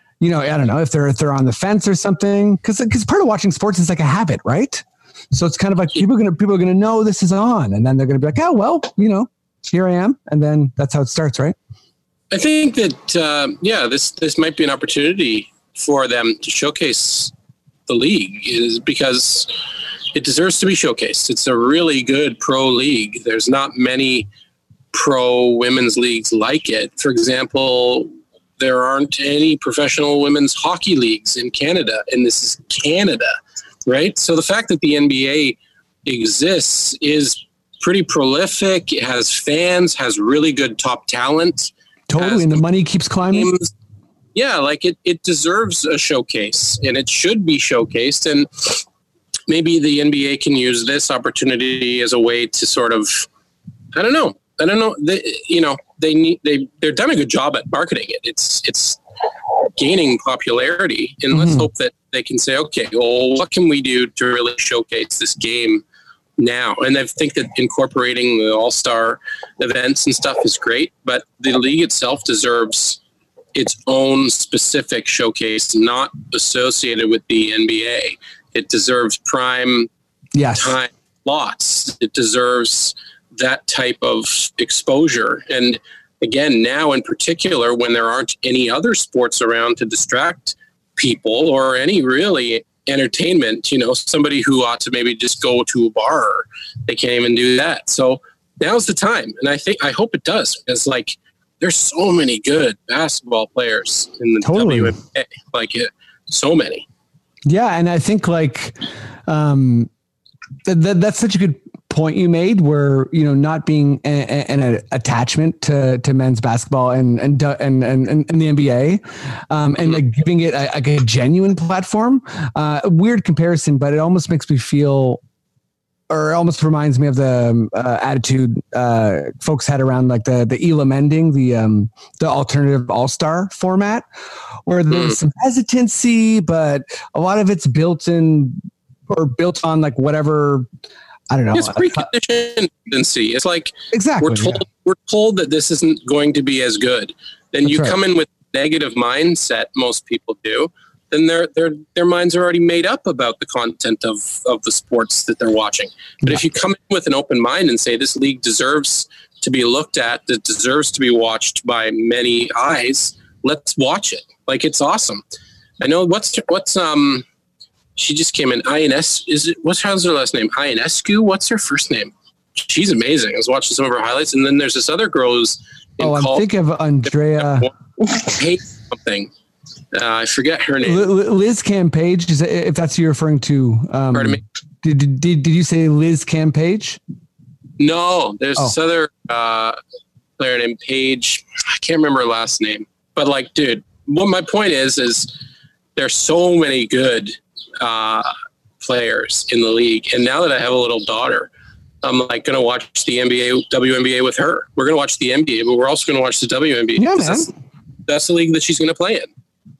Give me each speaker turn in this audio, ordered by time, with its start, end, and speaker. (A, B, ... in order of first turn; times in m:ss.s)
0:00.2-0:11.6 A
0:12.3-0:17.3 B
0:17.9-0:19.5 B
0:20.1-0:24.3 B
0:24.9-0:33.3 B
0:33.8-0:42.6 B
0:42.1-0:43.5 A
0:43.3-0:43.7 B
0:44.3-0:48.8 B
0:49.5-0:53.3 B
0:53.9-0:59.0 B
0:59.8-1:05.8 B
1:01.3-1:01.7 A
1:06.4-1:13.0 B
1:13.5-1:19.9 B
1:20.3-1:20.8 A
1:20.5-1:46.8 B
1:44.4-1:44.9 A
1:47.4-1:49.9 A
1:50.6-2:05.2 A
2:06.1-2:14.0 A
2:14.7-2:20.6 A
2:14.9-2:15.2 B
2:21.3-2:22.1 A
2:21.5-2:45.2 B
2:23.9-2:24.6 A
2:27.6-2:28.0 A
2:45.8-2:47.2 B
2:48.0-2:56.4 B
2:56.0-2:57.7 A
2:57.4-2:59.3 B
2:59.9-3:01.1 B
3:00.8-3:07.0 A
3:04.1-3:04.4 B
3:07.8-3:09.8 B
3:10.4-3:15.3 B
3:16.0-3:18.3 B
3:18.8-3:21.5 B
3:22.0-3:27.5 B
3:27.0-3:27.5 A
3:28.1-3:29.3 B